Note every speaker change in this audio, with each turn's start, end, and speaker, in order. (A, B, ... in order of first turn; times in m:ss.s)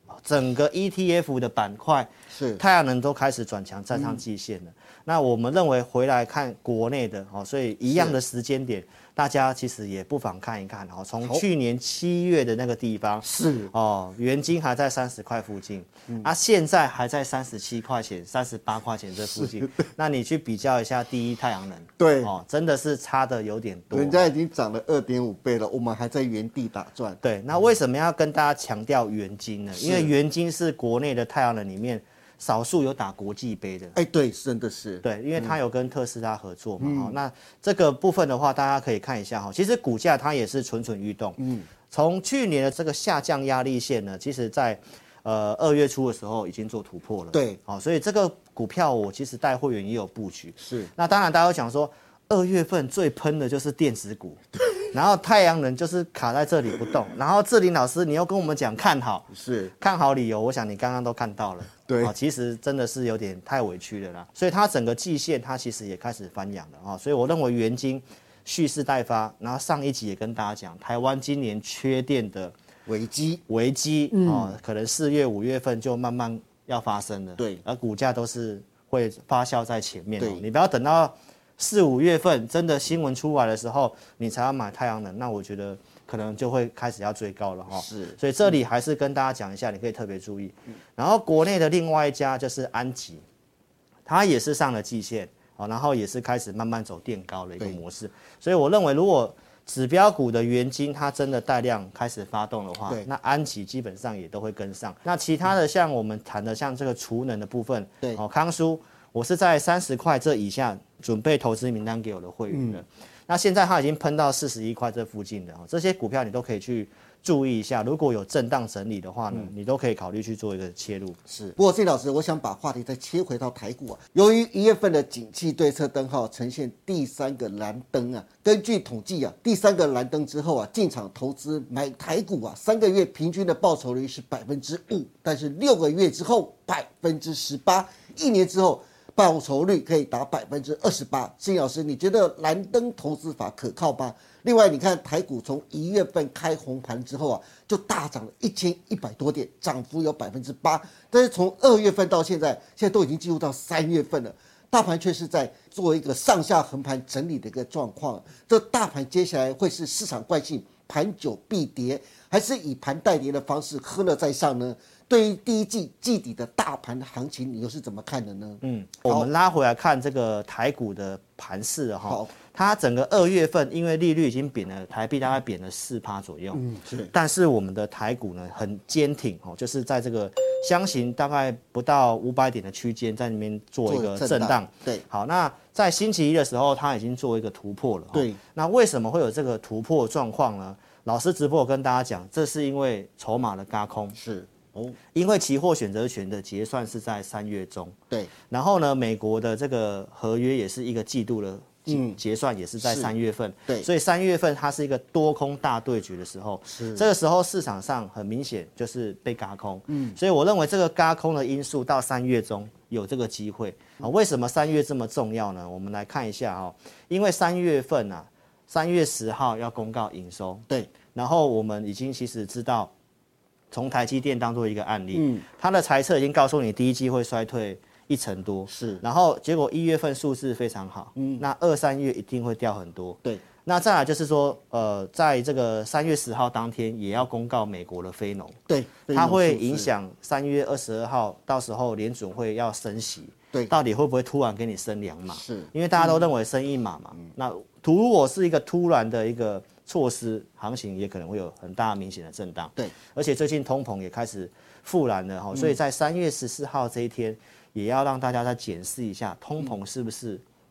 0:00.2-0:24.3 A
0:02.3-0:02.6 B
0:03.9-0:04.2 B
0:07.9-0:08.2 B
0:13.2-0:13.7 B
0:19.2-0:19.7 B
0:22.0-0:22.3 B
0:23.9-0:27.2 B
0:27.2-0:34.0 A
0:29.8-0:30.1 B
0:33.9-0:35.6 B
0:35.0-0:41.4 A
0:36.8-0:37.2 B
0:41.4-0:41.7 B
0:41.9-1:12.5 A
0:47.3-0:47.6 B
0:50.6-0:50.9 B
0:59.3-0:59.7 B
1:01.9-1:02.1 B
1:12.9-1:13.4 B
1:13.5-1:33.2 A
1:14.2-1:14.5 B
1:20.2-1:20.5 B
1:27.7-1:28.2 B
1:34.0-2:01.2 A
1:52.5-1:52.8 B
2:01.3-2:49.3 B
2:48.6-3:14.2 A
2:52.0-2:52.3 B
2:56.5-2:57.1 B
3:03.9-3:05.0 B
3:08.1-3:08.4 B
3:14.2-3:15.0 B
3:15.1-3:18.0 A
3:18.5-3:42.9 A
3:21.9-3:22.2 B
3:22.8-3:23.1 B
3:26.7-3:27.1 B
3:29.9-3:30.2 B
3:43.7-3:58.6 A
3:45.1-3:45.4 B
3:48.7-3:49.0 B
3:51.2-3:51.4 B
3:58.7-3:59.9 B
3:59.1-4:20.4 A
4:05.3-4:06.1 B